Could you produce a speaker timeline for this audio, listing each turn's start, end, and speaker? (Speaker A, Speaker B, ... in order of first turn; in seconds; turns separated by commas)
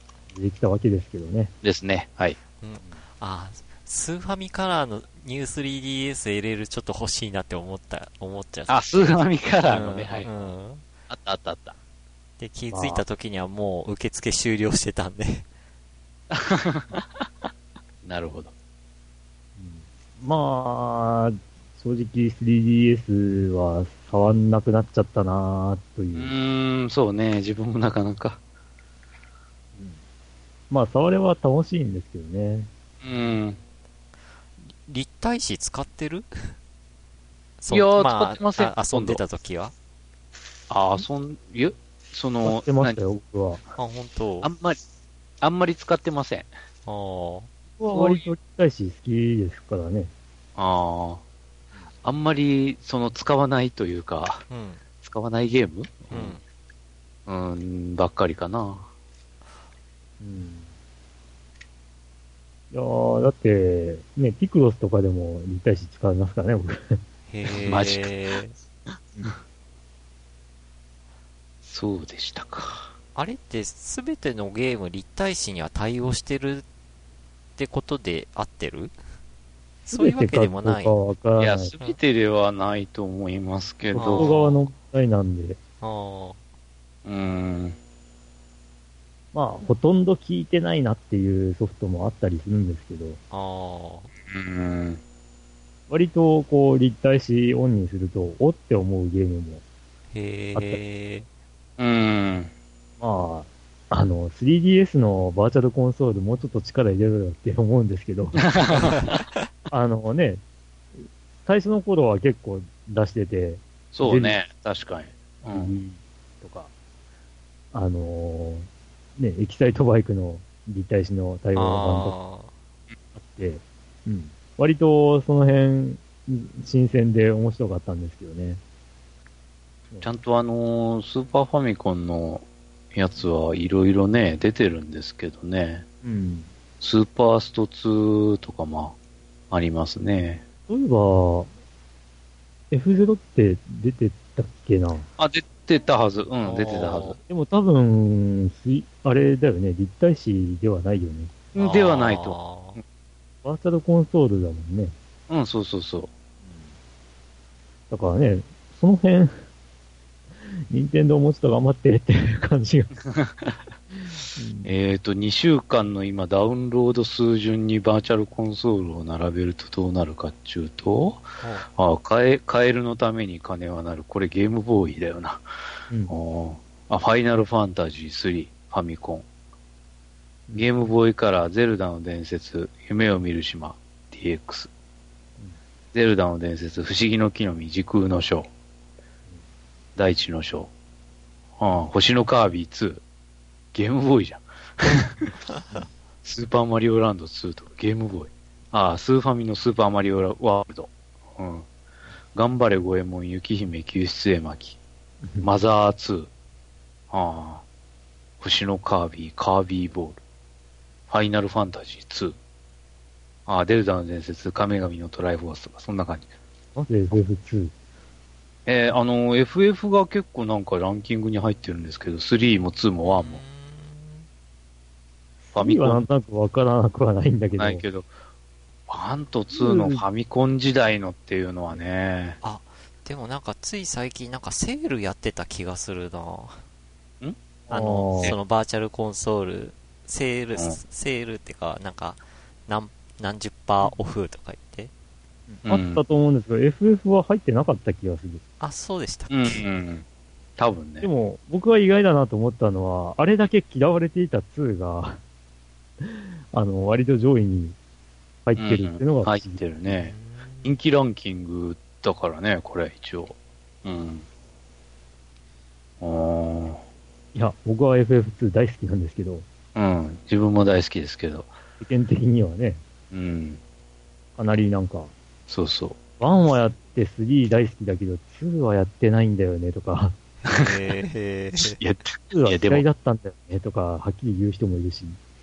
Speaker A: 0.3-1.5, Speaker B: 1.6-2.4, Speaker C: 2.6-10.8, Speaker B: 8.7-10.3, Speaker A: 10.2-10.5, Speaker B: 11.1-11.8, Speaker C: 12.4-15.5, Speaker A: 12.7-13.0, Speaker B: 16.3-17.0, Speaker B: 18.0-18.5, Speaker A: 19.6-26.3, Speaker B: 26.1-28.4, Speaker A: 30.7-32.7, Speaker B: 33.0-33.6, Speaker C: 34.6-36.6, Speaker C: 37.6-39.7, Speaker B: 37.7-39.2, Speaker B: 40.7-43.0, Speaker A: 42.4-43.6, Speaker C: 43.8-44.5, Speaker B: 44.4-44.8, Speaker B: 45.4-46.5, Speaker C: 46.9-47.5, Speaker A: 47.8-50.1, Speaker B: 47.9-48.3, Speaker B: 50.5-51.2, Speaker B: 52.0-54.5, Speaker C: 54.5-54.8, Speaker B: 55.0-56.4, Speaker C: 56.1-56.4, Speaker B: 57.3-58.9, Speaker A: 60.2-60.7, Speaker A: 62.7-67.0, Speaker C: 67.3-68.5, Speaker B: 67.6-68.1, Speaker B: 71.6-72.9, Speaker C: 73.1-76.6, Speaker C: 77.6-78.9, Speaker C: 79.8-81.0, Speaker A: 79.9-81.7, Speaker B: 81.4-84.3, Speaker A: 83.9-85.6, Speaker C: 84.0-84.6, Speaker C: 85.8-86.4, Speaker B: 87.0-87.8, Speaker A: 89.3-93.2, Speaker C: 93.3-94.1, Speaker B: 94.3-95.0, Speaker A: 95.9-99.6, Speaker C: 100.1-101.3, Speaker A: 100.5-100.8, Speaker B: 101.8-102.5, Speaker A: 103.0-108.5, Speaker B: 108.4-109.2, Speaker A: 109.7-110.4, Speaker A: 111.4-114.4, Speaker B: 113.9-115.7, Speaker A: 115.5-116.7, Speaker A: 117.7-122.1, Speaker C: 121.5-122.5, Speaker A: 123.2-128.6, Speaker B: 130.0-135.8, Speaker A: 136.0-136.5, Speaker B: 136.8-138.9, Speaker B: 139.5-140.4, Speaker A: 140.7-141.5, Speaker A: 142.7-145.1, Speaker B: 145.2-147.2, Speaker C: 146.4-147.2, Speaker A: 147.3-151.3, Speaker B: 151.5-152.4, Speaker C: 151.6-152.8, Speaker A: 153.4-154.9, Speaker B: 155.3-156.1, Speaker A: 156.4-156.7, Speaker A: 157.9-159.4, Speaker A: 160.7-162.9, Speaker B: 163.1-163.5, Speaker A: 164.3-164.7, Speaker B: 164.6-175.4, Speaker C: 171.4-171.7, Speaker B: 176.1-179.2, Speaker A: 180.5-180.8, Speaker B: 180.5-184.7, Speaker B: 185.9-188.5, Speaker B: 189.9-190.7, Speaker B: 191.6-193.0, Speaker B: 193.7-195.2, Speaker B: 196.2-201.7, Speaker B: 202.3-204.8, Speaker A: 205.2-205.5, Speaker B: 205.4-206.3, Speaker B: 207.1-207.6, Speaker B: 208.4-210.2, Speaker B: 211.1-212.3, Speaker B: 213.4-216.3, Speaker A: 216.7-217.7, Speaker B: 218.7-223.4, Speaker C: 223.1-224.3, Speaker A: 225.4-227.8, Speaker B: 225.5-226.0, Speaker B: 227.6-228.1, Speaker B: 228.9-232.4, Speaker A: 229.5-230.0, Speaker C: 232.4-236.6, Speaker C: 237.7-244.9, Speaker A: 237.7-238.3, Speaker A: 245.5-248.4, Speaker B: 245.7-246.0, Speaker C: 248.6-249.6, Speaker B: 249.3-250.0, Speaker B: 250.6-251.1, Speaker A: 251.0-255.2, Speaker A: 256.0-257.8, Speaker A: 258.4-259.6, Speaker B: 258.6-264.2, Speaker C: 259.9-260.7, Speaker B: 266.0-266.8, Speaker A: 267.3-269.4, Speaker B: 269.7-271.5, Speaker A: 271.8-272.8, Speaker B: 273.1-273.6, Speaker A: 274.4-275.1, Speaker B: 275.5-276.0, Speaker A: 276.2-280.2, Speaker C: 280.4-281.8, Speaker B: 281.6-282.8, Speaker A: 282.3-285.2